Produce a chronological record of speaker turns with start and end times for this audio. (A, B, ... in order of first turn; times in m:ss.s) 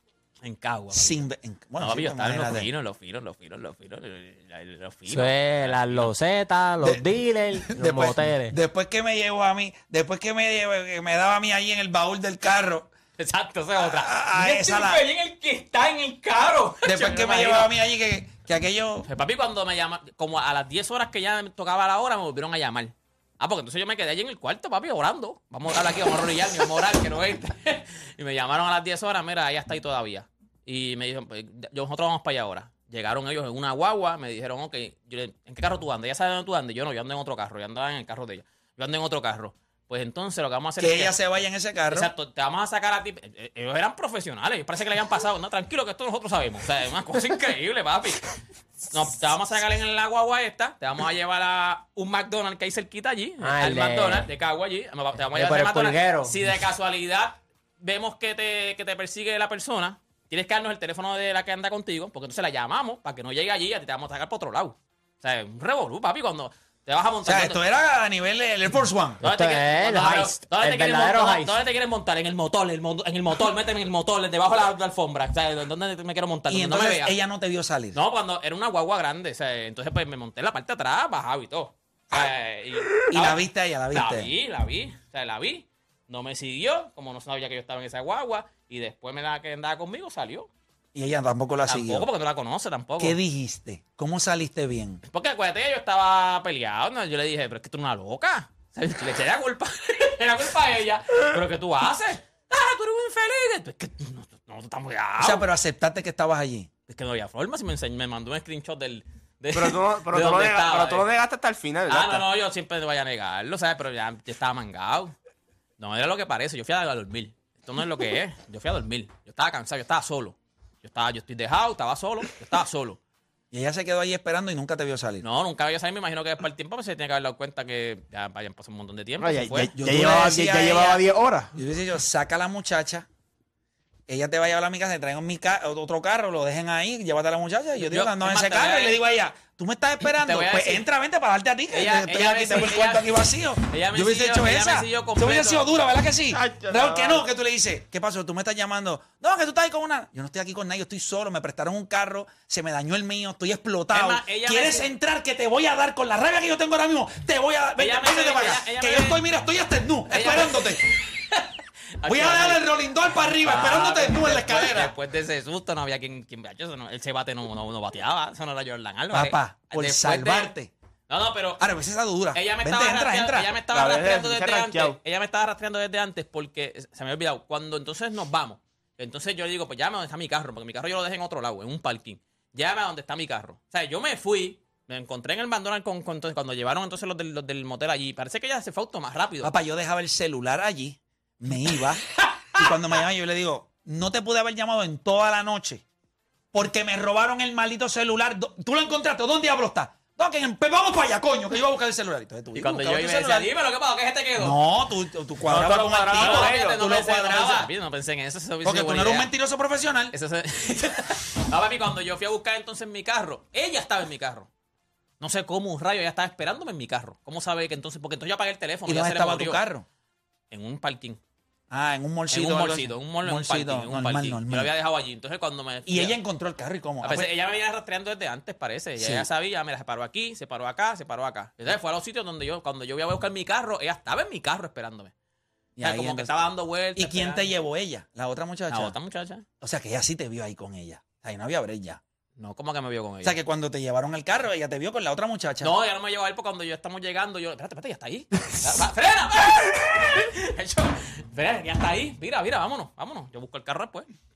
0:00.4-0:06.1 A
0:00.9-0:02.7 B
0:05.1-0:08.5 C
0:07.6-0:12.9 B
0:13.2-0:17.7 A
0:13.8-0:15.0 B
0:16.8-0:19.1 B
0:19.0-0:41.2 A
0:40.8-0:42.1 B
0:41.9-0:48.3 A
0:48.9-1:07.6 A
0:53.4-0:54.3 C
0:55.3-0:56.3 C
1:07.2-1:09.2 B
1:09.2-1:17.1 A
1:09.2-1:11.6 C
1:16.5-1:18.0 B
1:17.9-1:23.4 A
1:22.9-1:24.3 B
1:23.9-1:30.5 A
1:30.9-1:32.1 B
1:31.6-1:33.2 A
1:33.0-1:35.0 B
1:35.1-1:45.4 A
1:45.2-1:46.7 B
1:46.9-1:51.0 A
1:49.5-1:52.2 D
1:51.9-1:55.1 A
1:55.8-2:03.0 A
2:03.5-2:05.2 B
2:05.2-2:09.7 A
2:09.2-2:11.5 E
2:09.7-2:11.0 B
2:11.5-2:13.0 B
2:14.1-2:40.8 B
2:17.8-2:19.0 A
2:20.2-2:20.8 A
2:21.7-2:23.1 A
2:23.7-2:25.9 A
2:26.3-2:27.2 D
2:33.9-2:34.9 A
2:37.8-2:39.2 A
2:40.1-2:41.5 A
2:42.0-2:42.7 A
2:42.0-2:44.9 B
2:43.4-2:50.5 A
2:49.1-2:50.7 B
2:51.1-2:51.6 A
2:51.6-2:53.5 B
2:52.3-3:09.5 A
2:53.7-2:55.0 D
3:09.4-3:15.8 B
3:12.3-3:12.6 A
3:16.5-3:23.5 B
3:22.5-3:24.6 A
3:24.4-3:27.7 B
3:25.5-3:26.8 D
3:26.1-3:29.3 A
3:28.6-3:30.1 B
3:30.1-3:34.5 A
3:35.2-3:39.6 A
3:38.8-3:39.8 B
3:40.5-3:41.2 A
3:41.7-3:44.7 B
3:42.3-3:46.2 A
3:45.9-3:47.3 B
3:47.0-3:55.1 A
3:49.0-3:49.3 B
3:55.8-3:56.4 B
3:55.8-3:57.5 A
3:57.0-3:58.9 B
3:58.7-3:59.4 A
3:59.6-4:02.0 B
4:02.4-4:03.4 A
4:03.2-4:05.7 B
4:05.6-4:14.1 A